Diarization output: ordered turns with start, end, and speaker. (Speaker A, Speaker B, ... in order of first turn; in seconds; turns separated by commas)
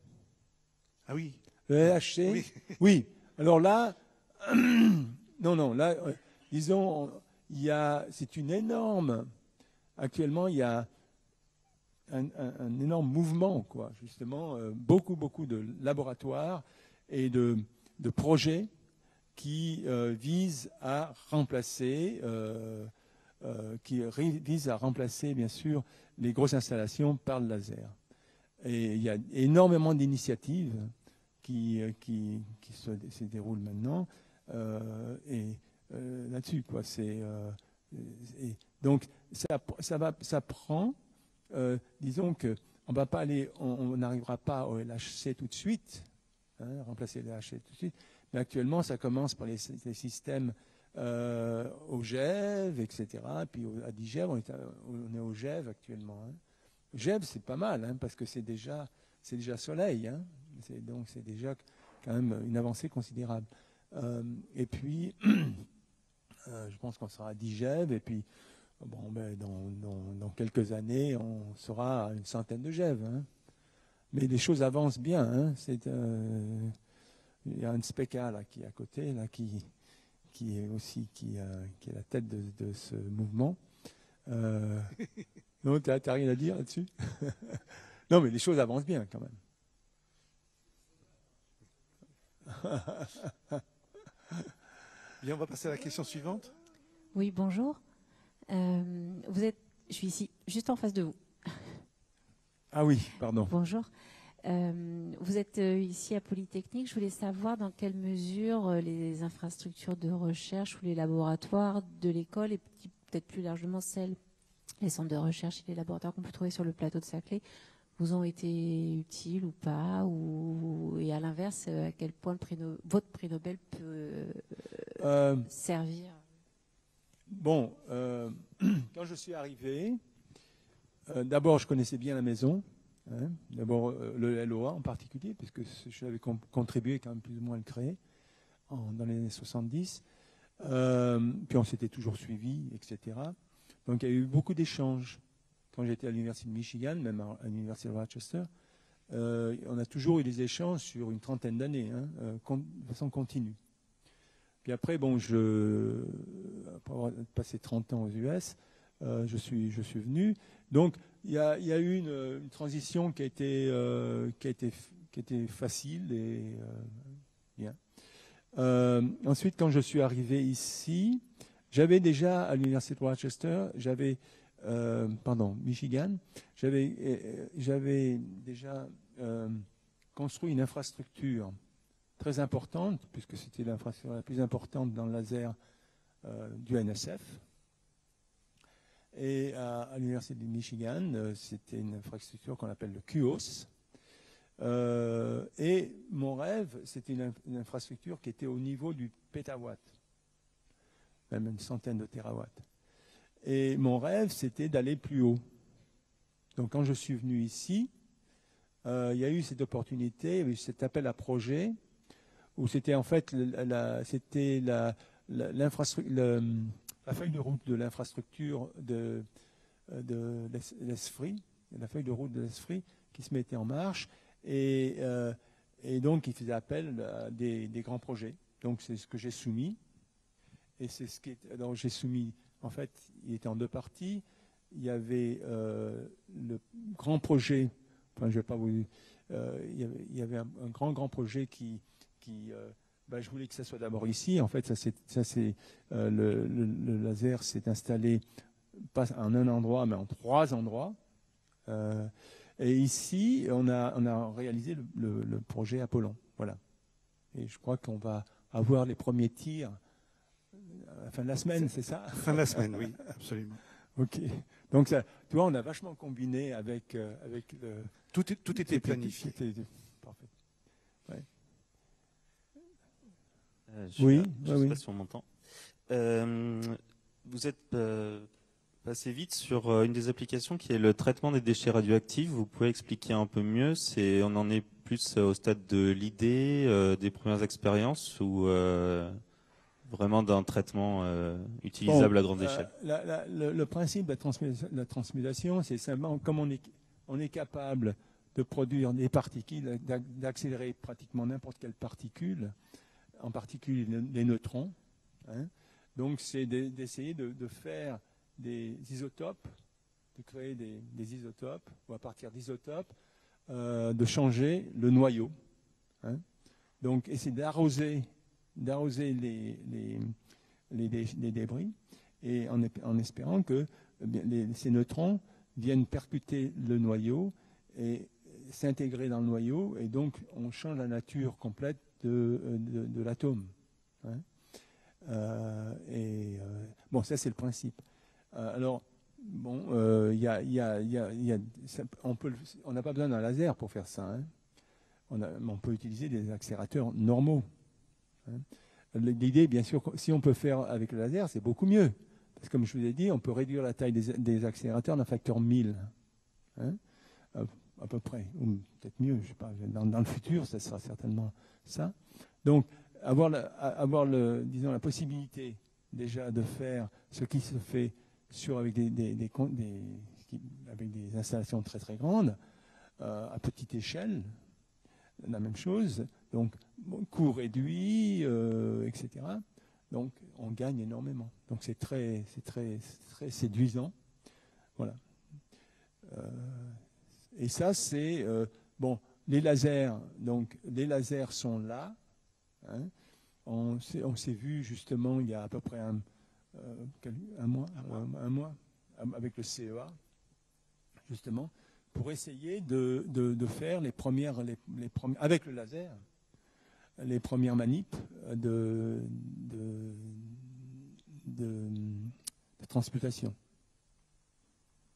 Speaker A: 1.1-1.4, Speaker B: 1.7-9.3, Speaker A: 2.2-2.6, Speaker B: 10.0-10.9, Speaker B: 12.1-18.7, Speaker B: 19.4-28.0, Speaker B: 28.6-30.9, Speaker B: 31.4-41.0, Speaker B: 41.5-56.4, Speaker B: 56.9-65.7, Speaker B: 66.5-68.2, Speaker B: 68.8-73.3, Speaker B: 74.1-76.8, Speaker B: 77.5-79.7, Speaker B: 80.3-83.6, Speaker B: 84.3-85.0, Speaker B: 85.6-89.4, Speaker B: 92.5-93.6, Speaker A: 95.2-96.5, Speaker C: 97.1-97.8, Speaker C: 98.5-101.8, Speaker B: 102.7-103.5, Speaker C: 103.5-103.9, Speaker C: 104.4-114.2, Speaker C: 114.8-117.4, Speaker C: 118.0-126.2, Speaker B: 125.0-125.5, Speaker B: 127.3-130.0, Speaker B: 131.1-138.0, Speaker B: 138.7-140.0, Speaker B: 140.6-145.2, Speaker B: 145.7-148.5, Speaker B: 149.1-153.6, Speaker B: 154.6-167.8, Speaker B: 168.6-179.7, Speaker B: 180.2-181.6, Speaker B: 182.2-185.6, Speaker B: 186.2-187.4, Speaker B: 189.1-193.7, Speaker B: 194.6-199.9, Speaker B: 201.3-202.7, Speaker B: 203.4-205.4, Speaker B: 206.6-207.9, Speaker B: 208.8-211.8, Speaker B: 212.6-219.3, Speaker B: 219.9-229.8, Speaker B: 230.8-248.2, Speaker B: 248.8-251.0, Speaker B: 251.7-256.6, Speaker B: 257.3-259.8, Speaker B: 260.5-262.9, Speaker A: 262.2-263.6, Speaker B: 264.0-268.0, Speaker A: 268.1-269.4, Speaker B: 268.5-270.3, Speaker D: 273.7-275.3, Speaker B: 274.0-274.8, Speaker D: 275.9-278.3, Speaker D: 278.8-289.2, Speaker D: 289.9-292.7, Speaker B: 291.9-302.5, Speaker B: 303.2-309.6, Speaker B: 310.1-312.9, Speaker B: 313.5-315.3, Speaker B: 316.8-320.1, Speaker B: 320.7-333.5, Speaker B: 335.1-344.3, Speaker B: 345.1-347.5, Speaker B: 348.3-355.9, Speaker B: 357.3-372.4, Speaker B: 373.0-374.4, Speaker B: 375.2-383.9, Speaker B: 386.1-386.8, Speaker B: 387.4-392.0, Speaker B: 392.6-392.9, Speaker B: 393.5-400.0, Speaker B: 401.1-406.0, Speaker B: 407.0-413.4